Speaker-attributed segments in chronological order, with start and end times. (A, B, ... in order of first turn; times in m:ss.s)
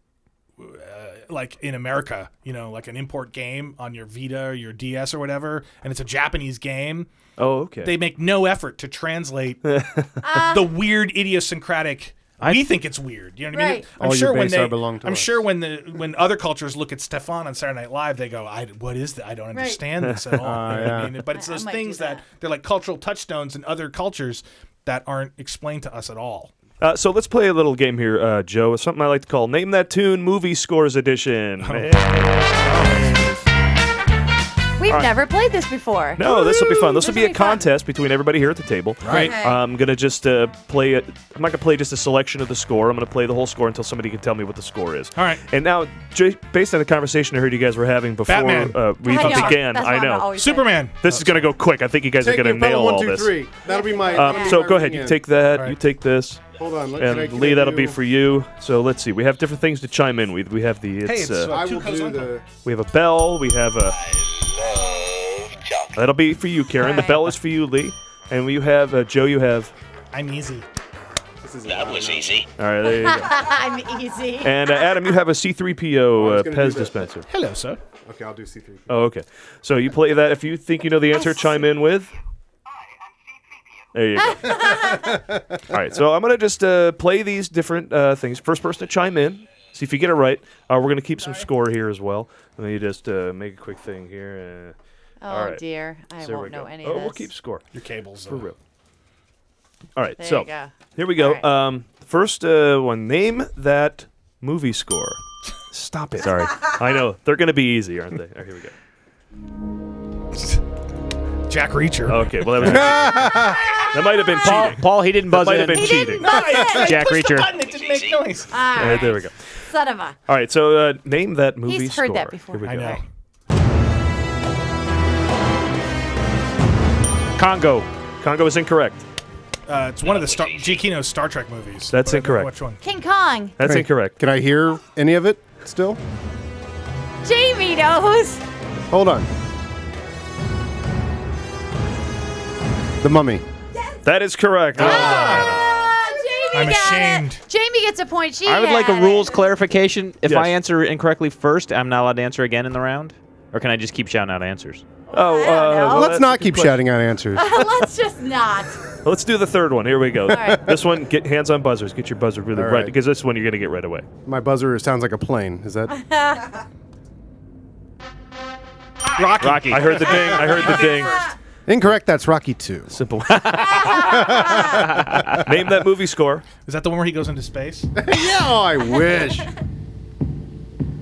0:00.6-0:07.1 A
0:07.4-0:08.0 B
0:07.8-0:09.6 A
0:09.6-0:10.1 B
0:10.2-0:10.7 C
0:10.4-0:26.5 A
0:12.4-0:12.7 D
0:13.5-0:13.8 C
0:14.0-0:15.4 E
0:19.5-0:19.8 C
0:20.0-0:20.8 B
0:20.4-0:21.2 E
0:21.3-0:22.2 C
0:26.8-0:32.6 B
0:31.6-0:33.4 A
0:34.8-0:37.6 C
0:36.2-0:50.3 B
0:39.0-0:39.3 E
0:39.1-0:39.6 C
0:45.2-0:45.4 A
0:48.3-0:49.7 A
0:49.0-0:50.8 C
0:50.4-0:51.4 A
0:51.0-0:53.4 B
0:52.2-0:55.2 E
0:53.6-0:54.6 C
0:54.1-0:56.4 B
0:56.6-0:58.0 E
0:57.0-1:01.6 B
1:01.1-1:02.4 A
1:01.2-1:02.4 E
1:02.6-1:04.0 B
1:05.9-1:09.7 B
1:06.8-1:07.3 C
1:10.1-1:10.6 A
1:11.4-1:12.4 E
1:12.6-1:13.5 B
1:12.8-1:14.7 C
1:14.4-1:17.2 B
1:16.2-1:17.0 E
1:17.3-1:17.8 A
1:18.0-1:19.1 E
1:18.9-1:22.1 B
1:21.1-1:21.6 C
1:23.9-1:25.0 B
1:24.2-1:25.2 C
1:25.1-1:25.4 E
1:25.7-1:34.7 B
1:35.2-1:37.3 C
1:35.3-1:35.6 B
1:36.2-1:37.7 B
1:37.7-1:38.5 A
1:38.3-1:38.6 B
1:40.0-1:45.2 B
1:40.2-1:41.4 C
1:45.7-1:48.7 B
1:51.5-1:52.9 A
1:52.1-1:56.4 B
1:52.6-1:53.6 E
1:54.4-1:56.0 D
1:55.8-1:56.8 C
1:56.0-1:58.6 A
1:56.7-1:57.6 D
1:58.5-2:00.2 C
1:58.7-1:59.5 B
2:00.3-2:03.0 B
2:01.6-2:03.0 C
2:02.6-2:03.0 A
2:07.4-2:07.9 D
2:08.2-2:09.0 B
2:09.7-2:12.8 A
2:11.9-2:12.5 B
2:12.8-2:13.6 C
2:13.6-2:14.2 B
2:13.6-2:16.0 E
2:17.2-2:18.4 C
2:18.9-2:19.3 E
2:23.0-2:23.4 E
2:24.0-2:25.9 B
2:24.7-2:25.6 A
2:24.8-2:25.3 E
2:24.8-2:29.4 C
2:26.5-2:27.4 A
2:28.4-2:34.8 D
2:30.2-2:30.5 B
2:35.1-2:36.2 C
2:35.1-2:36.8 B
2:35.8-2:37.7 E
2:37.4-2:38.8 C
2:39.0-2:44.1 B
2:40.3-2:40.6 C
2:40.3-2:40.8 E
2:42.5-2:43.0 E
2:44.3-2:46.0 E
2:45.9-2:46.6 C
2:49.2-2:51.3 A
2:49.4-2:50.0 D
2:49.7-2:51.3 B
2:51.7-2:53.0 E
2:52.9-2:54.2 B
2:53.3-2:55.4 D
2:53.6-2:54.8 C
2:53.9-2:55.5 E
2:55.3-2:56.4 B
2:56.6-2:57.9 A
2:58.0-2:59.5 E